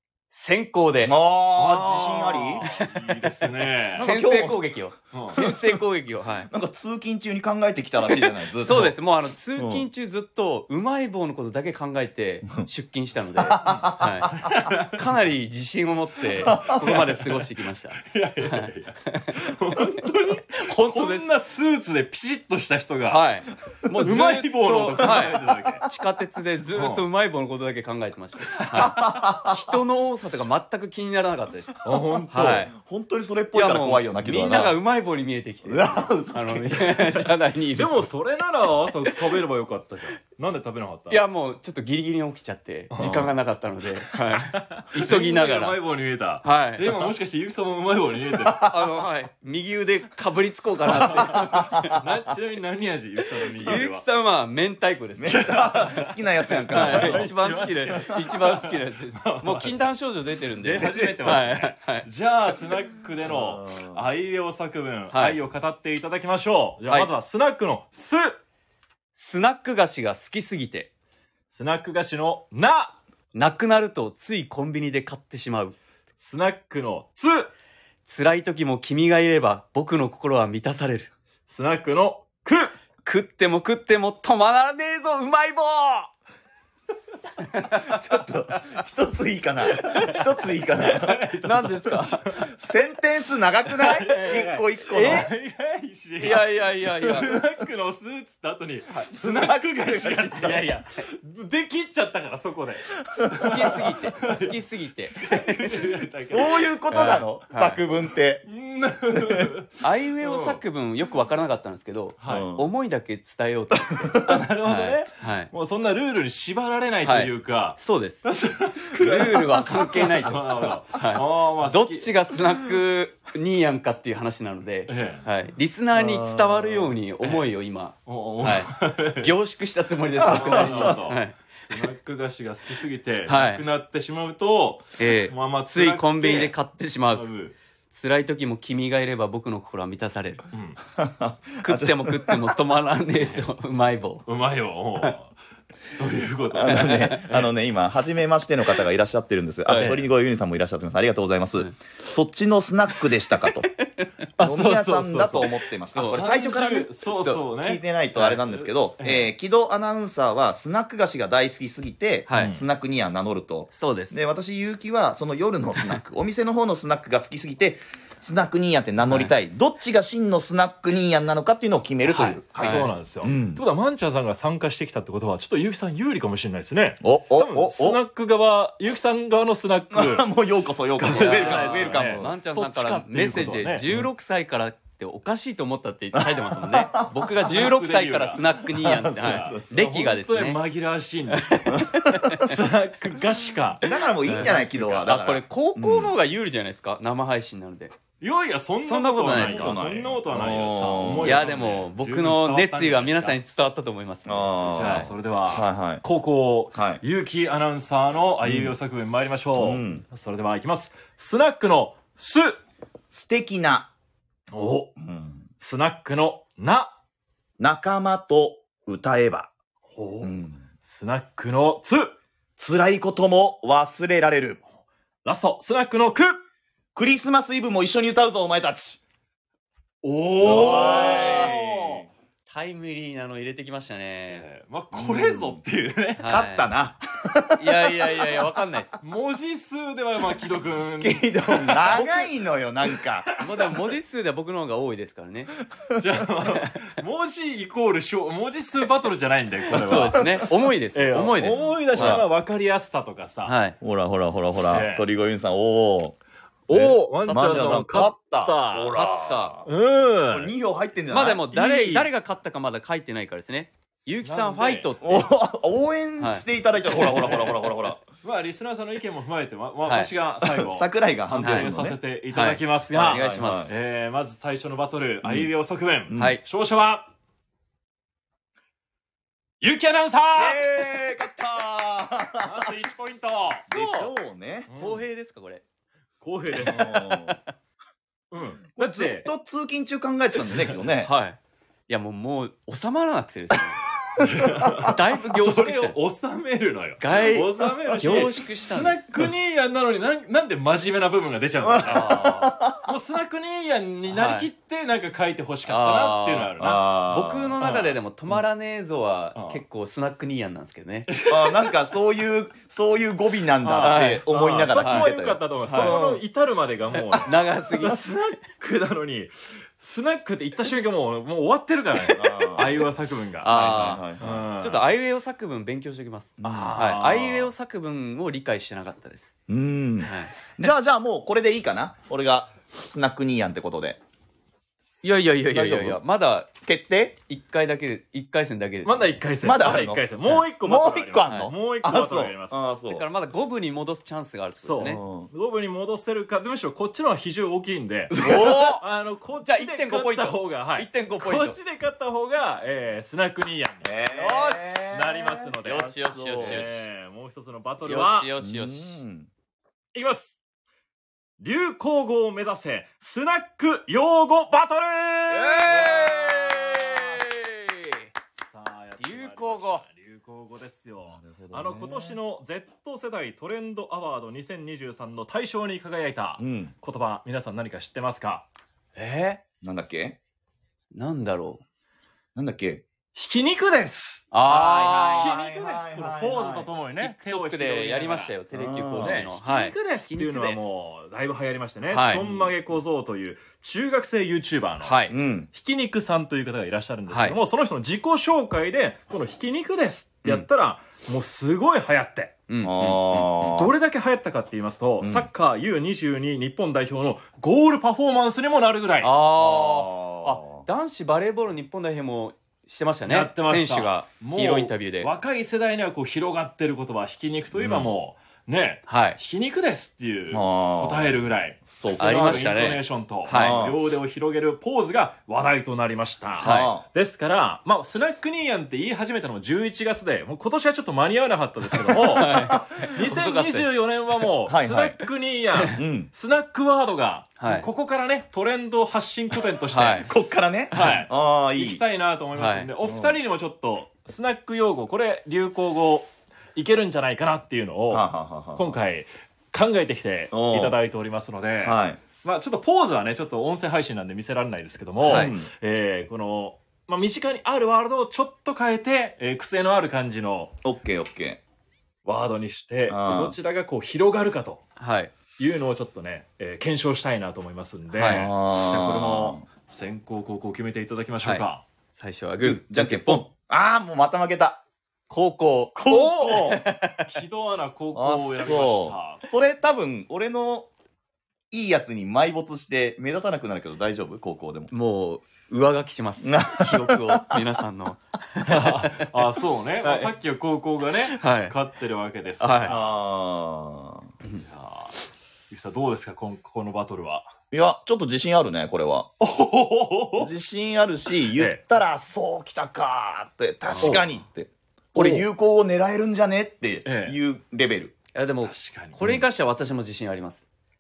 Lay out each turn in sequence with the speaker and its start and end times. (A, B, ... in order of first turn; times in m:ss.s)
0:00.3-0:01.1 A
0:01.0-0:02.6 B
0:01.6-0:04.0 C
0:04.0-0:04.6 B
0:04.0-0:06.5 A
0:05.1-0:05.4 C
0:05.3-0:05.8 B
0:06.5-0:09.0 B
0:08.0-0:21.3 A
0:09.6-0:09.8 B
0:13.4-0:14.5 B
0:13.6-0:15.0 C
0:16.4-0:17.1 B
0:16.5-0:17.4 C
0:18.0-0:23.2 C
0:23.1-0:31.8 A
0:24.0-0:25.8 C
0:26.7-0:27.0 C
0:28.6-0:29.0 C
0:28.7-0:29.6 B
0:31.8-0:32.7 C
0:32.1-0:34.8 B
0:32.3-0:32.7 A
0:33.5-0:38.1 A
0:35.6-0:37.2 B
0:37.7-0:41.2 C
0:41.1-0:45.8 A
0:42.9-0:43.3 C
0:43.0-0:43.3 B
0:44.5-0:48.7 C
0:46.4-0:47.0 A
0:48.6-0:52.0 A
0:51.1-0:51.9 B
0:51.1-0:54.0 C
0:53.6-0:55.8 A
0:55.2-0:57.3 B
0:55.3-0:56.1 C
0:56.5-1:02.1 A
0:56.7-0:59.8 C
1:00.6-1:08.4 C
1:03.2-1:04.0 B
1:05.1-1:05.4 A
1:09.1-1:10.9 A
1:11.5-1:13.0 C
1:13.3-1:15.8 A
1:16.2-1:17.5 C
1:18.1-1:21.1 A
1:21.5-1:22.7 C
1:23.0-1:26.1 A
1:27.5-1:28.0 A
1:27.8-1:31.3 B
1:29.7-1:30.2 C
1:30.8-1:32.4 C
1:31.4-1:32.4 A
1:32.4-1:35.3 B
1:33.8-1:46.6 C
1:34.9-1:35.3 A
1:36.2-1:37.3 A
1:37.0-1:37.4 B
1:39.0-1:40.6 B
1:43.1-1:43.8 B
1:43.3-1:45.6 A
1:46.2-1:48.4 B
1:46.9-1:47.8 A
1:48.4-1:50.6 C
1:49.1-1:49.5 B
1:49.8-1:55.5 A
1:52.2-1:52.5 C
1:52.3-1:52.7 B
1:53.9-1:54.4 B
1:54.2-2:02.1 C
1:57.0-1:58.3 A
1:58.9-2:11.4 A
2:04.9-2:05.2 C
2:05.9-2:06.9 B
2:07.2-2:07.5 C
2:08.0-2:09.3 C
2:10.2-2:11.0 B
2:10.2-2:16.5 C
2:13.3-2:13.6 A
2:15.0-2:17.3 A
2:17.1-2:17.6 C
2:17.9-2:20.4 A
2:20.5-2:20.8 C
2:21.0-2:22.5 B
2:21.6-2:24.2 A
2:24.2-2:25.4 C
2:25.9-2:27.5 C
2:26.5-2:33.7 B
2:26.7-2:27.2 A
2:29.7-2:30.0 C
2:34.4-2:39.3 C
2:34.4-2:36.9 B
2:35.9-2:36.2 A
2:37.4-2:53.6 B
2:42.3-2:42.6 A
2:42.3-2:42.6 C
2:43.7-2:44.2 A
2:49.0-2:49.3 A
2:52.0-2:52.9 A
2:52.6-3:00.3 C
2:57.0-2:58.0 B
2:59.9-3:02.3 B
3:01.0-3:04.0 C
3:01.1-3:10.6 A
3:06.1-3:07.5 B
3:07.4-3:08.4 C
3:08.7-3:09.7 B
3:09.1-3:14.7 C
3:11.3-3:12.4 A
3:11.7-3:12.5 B
3:13.8-3:16.1 B
3:14.3-3:18.0 A
3:18.2-3:23.4 C
3:18.8-3:19.8 A
3:19.3-3:21.5 B
3:21.2-3:25.1 A
3:24.2-3:26.0 B
3:24.7-3:32.6 C
3:26.7-3:27.0 B
3:28.4-3:28.7 B
3:29.6-3:30.0 B
3:33.1-3:33.9 B
3:34.5-3:34.9 C
3:35.0-3:35.4 B
3:35.6-3:36.9 C
3:37.6-3:39.5 B
3:39.9-3:42.1 C
3:40.2-3:40.6 B
3:42.6-3:44.6 B
3:45.2-3:46.4 C
3:46.9-3:49.0 B
3:50.0-3:52.0 C
3:50.4-3:52.1 B
3:50.5-3:51.6 A
3:52.5-3:54.4 A
3:54.3-3:56.3 C
3:54.9-3:55.6 B
3:56.2-3:56.7 A
3:56.2-3:58.4 B
3:57.6-3:59.0 A
3:59.0-4:02.1 C
4:01.0-4:03.3 B
4:01.8-4:02.1 A
4:03.2-4:03.6 C
4:03.4-4:05.6 A
4:06.0-4:13.5 C
4:09.7-4:12.2 A
4:09.9-4:10.4 B
4:11.4-4:12.2 B
4:13.4-4:13.8 A
4:13.8-4:16.2 B
4:14.7-4:15.0 C
4:16.7-4:18.9 C
4:16.7-4:19.7 B
4:17.2-4:17.9 A
4:18.9-4:19.6 A
4:19.6-4:20.5 C
4:20.3-4:22.1 B
4:21.1-4:25.3 A
4:24.2-4:24.9 C
4:25.0-4:28.0 B
4:26.2-4:27.7 A
4:26.8-4:27.5 C
4:28.2-4:37.1 C
4:29.8-4:30.1 A
4:30.4-4:32.0 B
4:31.4-4:31.7 A
4:32.3-4:33.7 A
4:33.0-4:33.7 B
4:35.2-4:35.5 B
4:36.1-4:36.4 B
4:36.2-4:36.4 A
4:39.6-4:40.6 C
4:40.3-4:42.7 B
4:42.4-4:43.7 C
4:43.7-4:44.1 A
4:43.7-4:44.7 B
4:44.7-4:45.0 C
4:44.8-4:45.6 A
4:46.2-4:46.9 C
4:46.5-4:47.4 A
4:46.6-4:47.4 B
4:48.3-4:49.3 C
4:48.8-4:51.1 B
4:51.0-4:51.4 A
4:51.9-4:53.8 A
4:54.2-5:06.8 C
4:54.7-4:56.0 A
4:57.0-4:59.0 A
5:01.6-5:02.9 B
5:02.0-5:02.3 A
5:04.1-5:04.5 A
5:05.6-5:11.1 A
5:06.6-5:07.6 B
5:07.6-5:08.0 C
5:09.3-5:09.6 C
5:11.1-5:11.7 C
5:11.2-5:16.2 B
5:13.6-5:24.9 C
5:13.8-5:15.1 A
5:15.6-5:16.0 A
5:17.2-5:18.3 A
5:22.1-5:22.8 B
5:23.4-5:24.1 A
5:23.5-5:24.4 B
5:24.6-5:29.3 A
5:26.4-5:26.8 B
5:26.6-5:27.5 C
5:29.5-5:34.0 B
5:30.0-5:30.4 A
5:35.0-5:36.5 A
5:35.5-5:36.0 B
5:36.6-5:37.2 B
5:37.3-5:39.2 A
5:38.8-5:42.6 C
5:39.4-5:40.0 B
5:40.6-5:43.0 B
5:41.2-5:41.5 A
5:42.8-5:45.0 A
5:44.6-5:48.2 C
5:44.8-5:45.3 B
5:48.1-5:48.8 B
5:48.2-5:48.8 A
5:48.8-5:58.3 C
5:49.4-5:51.6 A
5:53.8-5:56.6 B
5:55.6-5:56.8 A
5:57.8-5:59.0 A
5:58.4-5:59.3 B
5:59.9-6:00.4 C
6:01.4-6:07.2 C
6:05.3-6:08.1 A
6:08.4-6:18.4 C
6:09.0-6:09.8 A
6:11.1-6:12.2 B
6:16.4-6:16.7 B
6:19.0-6:19.4 A
6:19.6-6:20.2 B
6:20.9-6:21.6 A
6:22.3-6:22.8 B
6:23.1-6:24.3 C
6:24.3-6:25.4 A
6:24.4-6:26.7 B
6:24.9-6:28.3 C
6:27.0-6:30.7 A
6:28.5-6:29.2 B
6:29.0-6:42.4 C
6:31.9-6:32.3 A
6:34.8-6:35.1 A
6:35.1-6:35.5 B
6:37.1-6:37.4 A
6:42.5-6:43.3 A
6:42.6-6:43.7 B
6:43.4-6:49.1 C
6:45.0-6:45.3 B
6:49.0-6:55.1 A
6:49.4-6:50.6 B
6:53.1-7:20.1 C
6:57.5-6:57.9 B
6:58.9-6:59.2 A
7:00.3-7:02.5 B
7:02.0-7:03.6 A
7:03.3-7:03.8 B
7:06.4-7:06.8 B
7:06.4-7:06.7 A
7:12.0-7:12.8 B
7:12.1-7:13.7 A
7:14.5-7:15.0 B
7:15.7-7:16.1 B
7:17.4-7:17.7 A
7:19.7-7:20.1 A
7:20.1-7:21.8 B
7:20.7-7:40.5 C
7:22.4-7:22.7 A
7:22.8-7:23.2 B
7:27.9-7:28.7 B
7:30.3-7:30.8 B
7:31.6-7:32.0 B
7:35.0-7:35.3 A
7:35.0-7:35.5 B
7:40.6-7:41.4 B
7:42.0-7:44.6 C
7:42.9-7:43.4 B
7:44.8-7:45.1 A
7:45.4-7:51.6 C
7:47.9-7:48.3 A
7:48.1-7:49.4 B
7:52.0-7:53.2 A
7:52.4-7:54.6 B
7:55.1-7:57.1 A
7:55.8-7:56.6 B
7:55.9-7:59.2 C
7:57.9-8:00.7 B
8:01.5-8:04.7 B
8:04.7-8:09.1 A
8:06.2-8:07.4 B
8:08.4-8:12.9 C
8:09.8-8:10.1 A
8:11.1-8:11.5 A
8:12.4-8:12.8 A
8:12.6-8:14.1 B
8:14.4-8:15.0 C
8:15.5-8:17.3 C
8:17.5-8:19.1 B
8:19.2-8:20.3 C
8:20.2-8:27.9 B
8:21.4-8:21.6 C
8:23.7-8:24.0 A
8:23.8-8:24.1 C
8:24.9-8:25.2 C
8:26.8-8:27.2 C
8:28.1-8:30.4 A
8:28.4-8:29.0 C